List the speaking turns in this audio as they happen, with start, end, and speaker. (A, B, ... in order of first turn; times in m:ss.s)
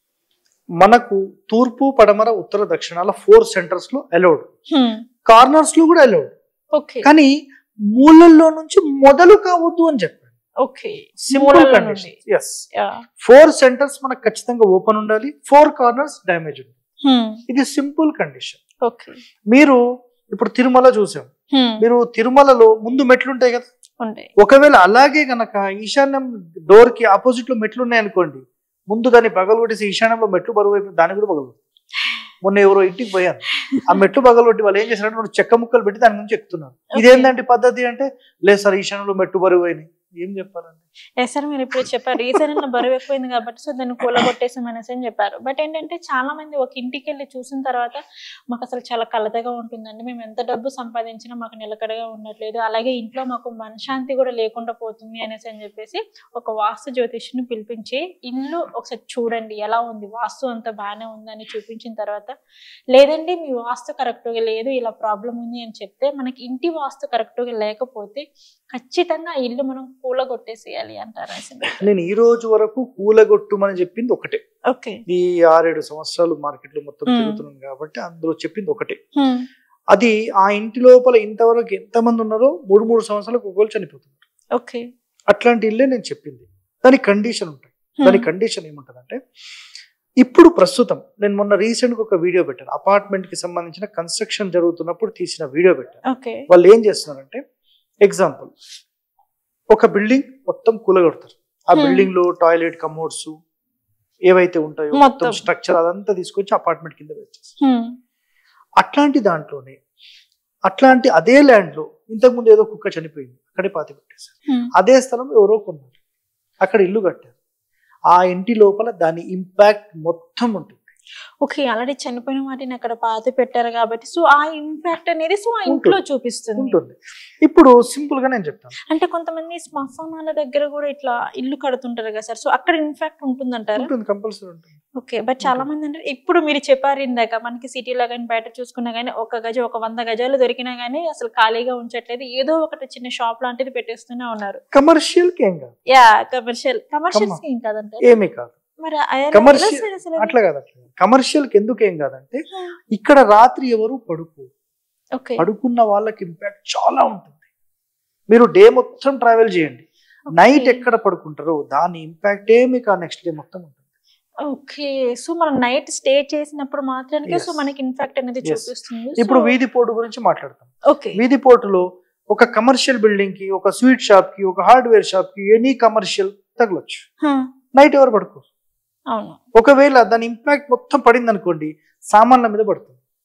0:00.8-0:04.5 A
0:04.7-0:05.0 B
0:05.3-0:06.3 A
0:06.7-0:07.1 B
0:07.0-0:07.3 A
0:07.9-0:10.3 A
0:10.6-0:12.2 B
0:11.3-0:12.6 A
0:12.8-0:13.0 B
0:13.2-0:16.8 A
0:17.0-0:17.4 B
0:17.5-0:18.6 A
0:18.8-0:19.2 B
0:19.5-0:19.8 A
0:20.3-0:21.3 A
0:21.5-0:21.8 B
0:21.8-0:23.6 A
0:24.0-0:24.3 B
0:24.4-0:31.6 A
0:32.4-0:40.8 A
0:37.0-0:37.3 B
0:41.2-1:02.3 B
1:02.9-1:11.9 B
1:11.8-1:14.4 A
1:14.7-1:15.0 B
1:15.1-1:19.0 A
1:17.1-1:17.4 B
1:19.2-1:19.4 B
1:19.9-1:24.1 A
1:24.6-1:24.8 B
1:25.3-1:29.2 A
1:30.2-1:36.0 A
1:36.1-1:36.4 B
1:36.5-1:37.4 A
1:38.0-1:38.5 A
1:39.7-1:43.3 A
1:41.8-1:42.1 B
1:44.3-1:47.5 A
1:44.9-1:45.4 B
1:47.6-1:47.9 B
1:48.8-1:49.8 A
1:50.7-1:55.9 A
1:56.6-1:57.3 A
1:58.1-2:00.9 A
2:01.4-2:06.8 B
2:05.7-2:06.0 A
2:06.6-2:08.7 A
2:08.9-2:13.9 B
2:13.8-2:14.7 A
2:15.0-2:24.6 B
2:24.7-2:25.7 A
2:25.9-2:28.0 B
2:27.1-2:27.4 A
2:28.0-2:28.5 A
2:28.8-2:30.3 B
2:29.3-2:32.4 A
2:32.9-2:34.5 A
2:35.2-2:35.4 B
2:35.4-2:37.4 A
2:38.3-2:43.8 A
2:40.4-2:40.8 B
2:44.5-2:49.5 B
2:47.2-2:47.7 A
2:49.2-2:57.0 A
2:50.9-2:51.2 B
2:57.8-2:58.4 A
2:59.1-2:59.4 B
2:59.5-3:03.0 A